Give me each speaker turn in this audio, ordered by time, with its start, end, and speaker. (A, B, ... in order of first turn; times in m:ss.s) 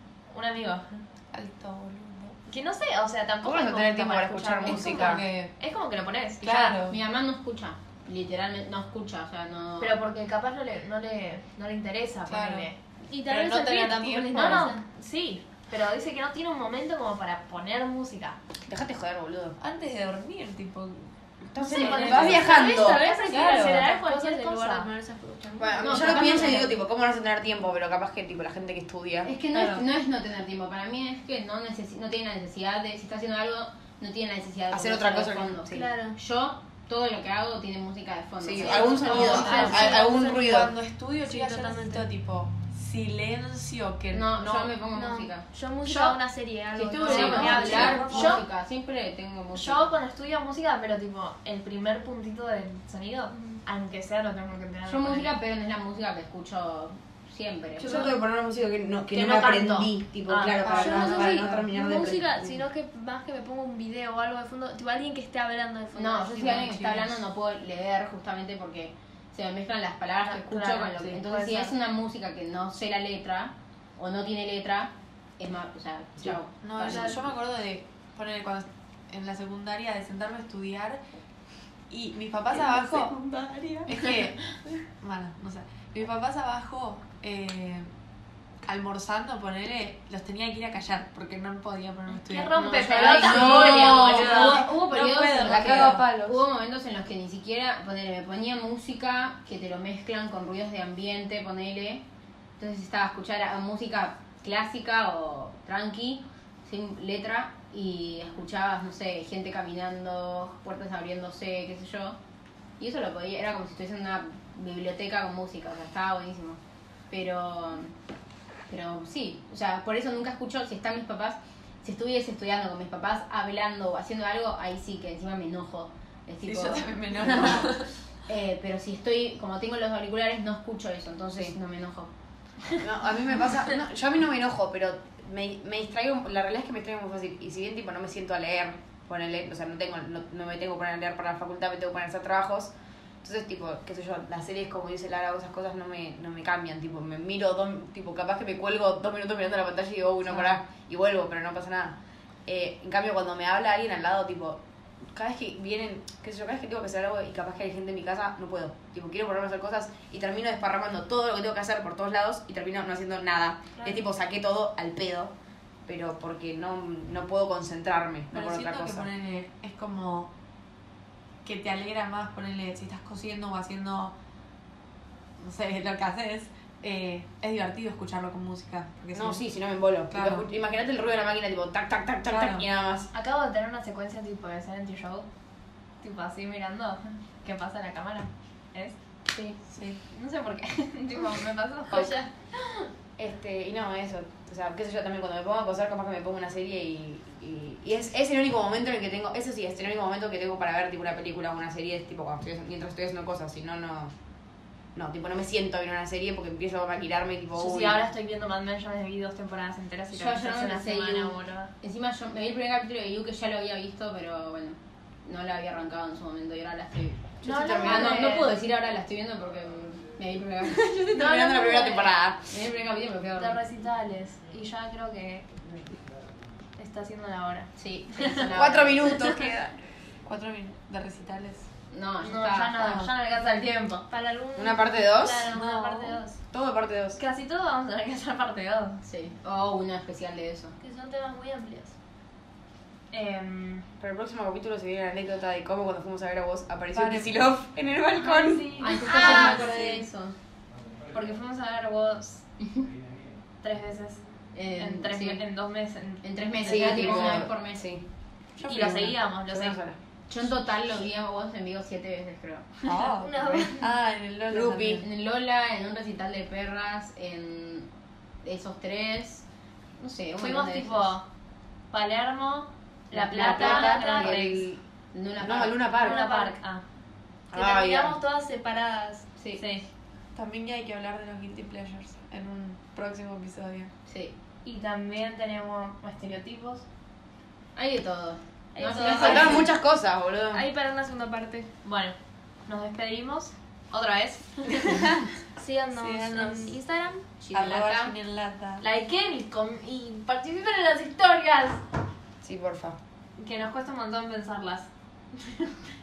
0:00.3-0:01.0 A
0:01.3-0:02.4 B
0:02.4-0:06.8 A
0:03.4-0:05.2 C
0:04.6-0:05.5 B
0:06.4-0:07.0 B
0:06.9-0:10.0 D
0:09.8-0:12.8 A
0:12.2-0:14.6 B
0:13.1-0:14.8 E
0:14.3-0:18.4 A
0:18.7-0:19.6 C
0:19.6-0:24.0 B
0:21.5-0:23.1 C
0:21.6-0:24.9 A
0:21.7-0:25.8 E
0:24.9-0:26.3 B
0:25.6-0:29.3 C
0:25.8-0:26.8 D
0:29.2-0:40.0 D
0:29.5-0:29.8 A
0:34.7-0:35.8 C
0:35.7-0:36.2 E
0:38.4-0:40.7 C
0:38.6-0:44.8 B
0:39.1-0:39.8 A
0:39.4-0:39.8 E
0:41.2-0:42.0 E
0:44.1-0:45.4 D
0:44.9-0:48.4 E
0:45.8-0:46.1 A
0:46.7-0:49.9 D
0:47.0-0:48.4 B
0:47.1-0:48.4 A
0:49.5-0:55.3 A
0:53.3-0:53.6 E
0:54.8-0:58.1 D
0:57.8-1:02.6 C
0:59.1-1:00.6 A
1:00.6-1:01.7 B
1:00.7-1:06.8 E
1:05.9-1:17.2 D
1:06.6-1:06.9 A
1:10.2-1:11.7 A
1:16.2-1:21.0 B
1:21.9-1:27.9 B
1:23.9-1:24.2 A
1:28.6-1:36.4 B
1:32.1-1:35.9 A
1:32.5-1:42.0 D
1:33.1-1:34.1 C
1:35.4-1:36.0 C
1:42.6-1:52.2 D
1:52.8-1:58.0 D
1:58.7-2:12.1 D
2:06.4-2:07.9 B
2:12.8-2:34.6 C
2:35.1-2:45.3 C
2:43.8-2:44.0 E
2:45.9-2:49.0 C
2:48.3-2:50.3 B
2:51.4-2:54.1 B
2:55.4-2:59.4 B
2:59.1-3:03.1 C
3:00.1-3:00.4 B
3:02.3-3:02.6 B
3:03.1-3:05.3 A
3:06.0-3:09.0 A
3:09.7-3:10.0 B
3:10.1-3:12.9 A
3:11.9-3:12.3 E
3:13.2-3:24.1 C
3:24.9-3:28.0 C
3:27.5-3:31.7 A
3:30.1-3:41.0 D
3:37.4-3:38.5 A
3:37.4-3:38.4 C
3:40.7-3:42.1 A
3:41.1-3:42.5 C
3:42.4-3:43.6 D
3:43.4-3:45.4 A
3:46.8-3:48.5 A
3:47.7-3:49.3 D
3:48.5-3:49.4 C
3:49.2-3:51.7 B
3:51.9-3:53.0 D
3:52.2-3:54.1 A
3:52.8-3:53.1 B
3:54.1-3:56.2 E
3:54.5-3:55.6 C
3:55.5-3:56.2 B
3:55.5-3:56.3 A
3:56.4-3:57.2 C
3:57.2-3:59.0 A
3:59.0-4:00.7 D
4:00.8-4:01.9 E
4:03.1-4:03.9 A
4:04.0-4:09.5 C
4:06.9-4:07.5 B
4:08.2-4:09.8 A
4:08.8-4:10.4 D
4:09.1-4:09.5 E
4:09.5-4:10.0 B
4:11.1-4:12.4 A
4:12.6-4:12.9 D
4:13.6-4:17.4 A
4:14.5-4:15.4 D
4:16.2-4:17.9 D
4:16.6-4:18.0 C
4:18.6-4:19.1 B
4:18.6-4:19.8 A
4:18.6-4:20.0 C
4:20.3-4:23.0 D
4:22.8-4:25.0 B
4:23.2-4:23.9 E
4:24.5-4:25.0 C
4:25.0-4:27.9 D
4:28.4-4:29.4 D
4:30.0-4:31.1 D
4:30.4-4:31.2 A
4:31.9-4:34.7 A
4:33.1-4:35.9 D
4:33.2-4:34.6 C
4:35.4-4:36.2 C
4:36.0-4:36.6 E
4:36.0-4:36.8 A
4:37.5-4:38.2 C
4:37.5-4:39.3 E
4:39.4-4:39.6 D
4:39.6-4:39.8 A
4:40.3-4:43.9 B
4:44.0-4:44.3 D
4:44.6-4:46.8 A
4:47.7-4:49.7 D
4:48.8-4:49.7 E
4:49.0-4:50.6 C
4:50.5-4:51.7 E
4:51.8-4:55.1 A
4:55.6-4:57.2 E
4:55.9-4:56.6 B
4:56.3-4:56.8 A
4:57.4-4:58.1 D
4:57.5-4:58.8 B
4:58.8-5:01.8 A
5:02.4-5:03.0 C
5:03.4-5:05.8 A